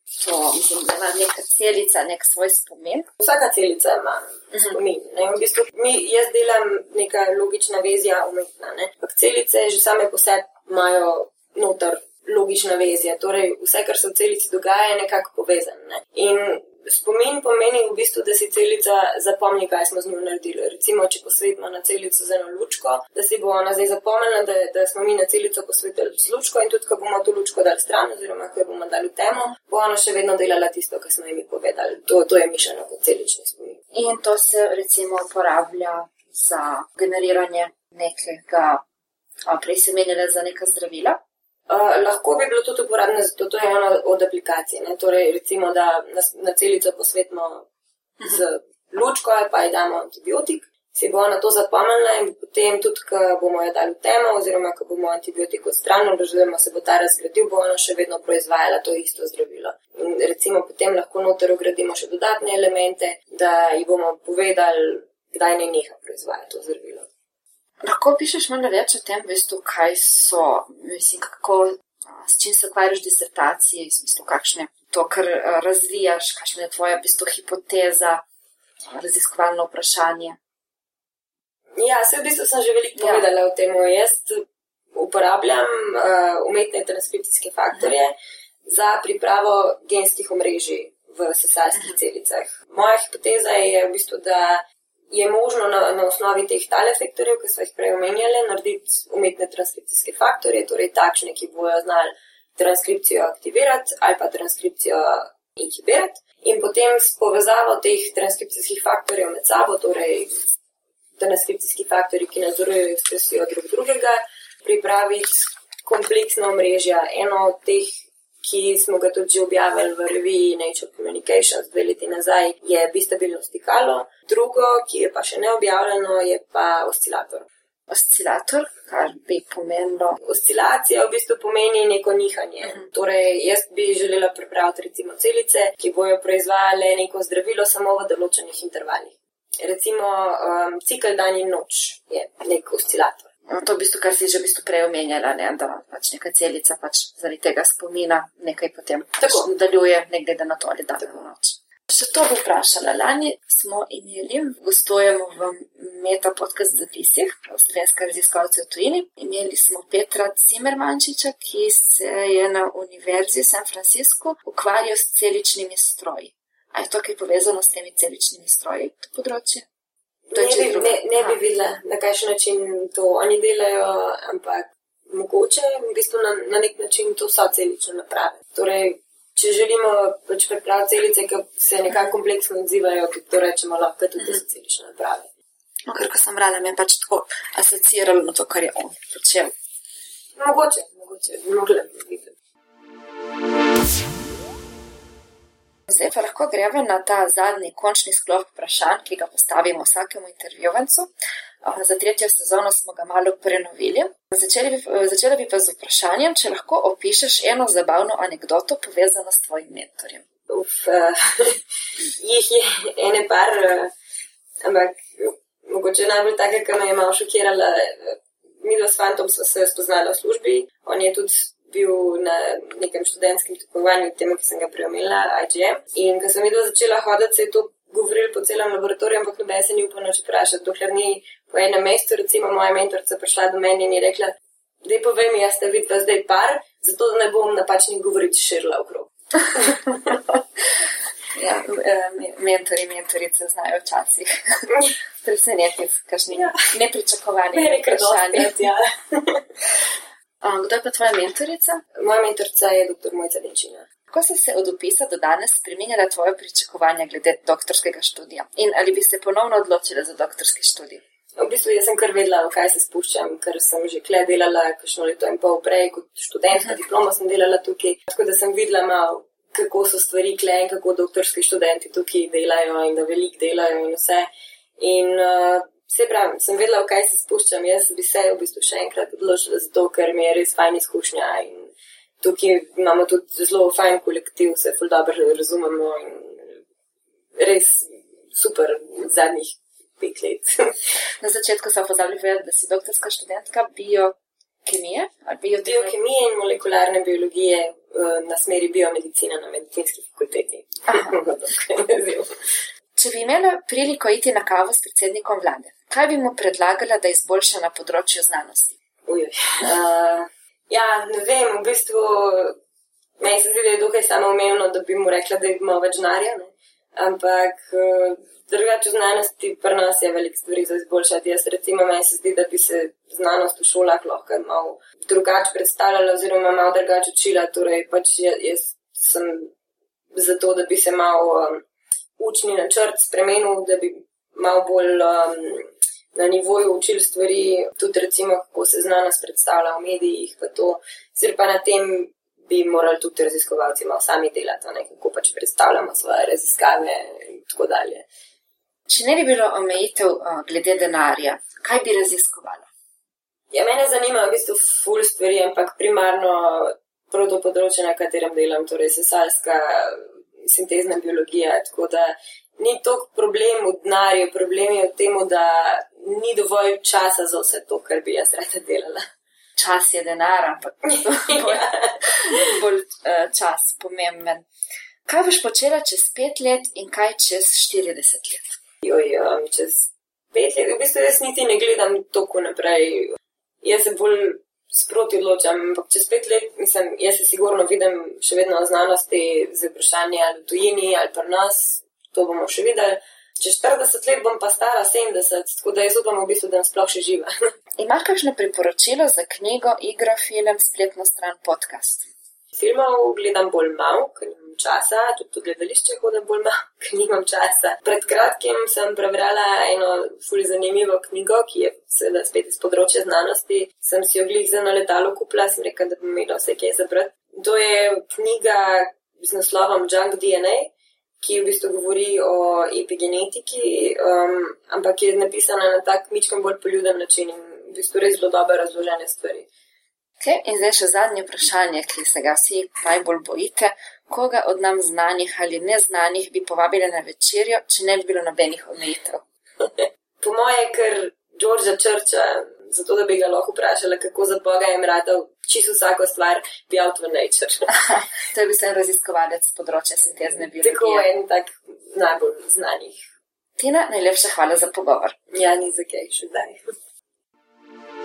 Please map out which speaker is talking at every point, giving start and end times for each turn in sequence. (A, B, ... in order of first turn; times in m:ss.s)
0:00.2-0:03.1 A
0:03.2-0:33.8 B
0:33.9-0:38.8 A
0:39.5-0:41.2 A
0:41.7-0:47.7 B
0:48.2-1:07.1 B
1:07.8-1:18.2 A
1:18.9-1:20.4 A
1:21.8-1:24.4 B
1:23.0-1:23.3 A
1:25.0-1:28.2 B
1:28.7-1:50.3 B
1:51.2-1:57.9 B
1:58.4-2:07.5 B
2:07.9-2:10.2 A
2:10.2-2:23.3 B
2:23.5-2:49.7 A
2:29.2-2:29.5 B
2:50.3-3:05.3 B
2:50.4-2:51.4 A
3:05.9-3:09.5 A
3:10.4-3:12.4 B
3:15.9-3:21.1 A
3:21.6-3:30.2 A
3:30.5-3:31.6 B
3:32.2-3:33.9 B
3:34.6-4:00.2 B
4:01.3-4:08.7 A
4:07.5-4:09.4 B
4:10.4-4:11.8 A
4:12.0-4:13.9 B
4:14.1-4:21.0 A
4:21.4-4:46.6 B
4:47.4-4:50.8 B
4:51.2-4:56.0 A
4:55.6-5:02.3 B
5:00.9-5:01.2 A
5:03.0-5:08.8 A
5:09.1-5:12.6 B
5:13.2-5:29.5 B
5:30.1-5:31.6 B
5:32.2-5:48.1 B
5:48.9-5:52.7 A
5:53.5-6:09.0 B
6:09.6-6:14.5 A
6:10.9-6:12.4 B
6:15.1-6:18.6 A
6:18.8-6:37.3 B
6:37.8-6:42.1 A
6:42.6-7:09.5 B
7:10.2-7:19.2 A
7:19.6-7:27.7 B
7:27.7-7:31.1 A
7:30.6-7:33.0 B
7:33.6-7:35.2 A
7:35.3-7:36.6 B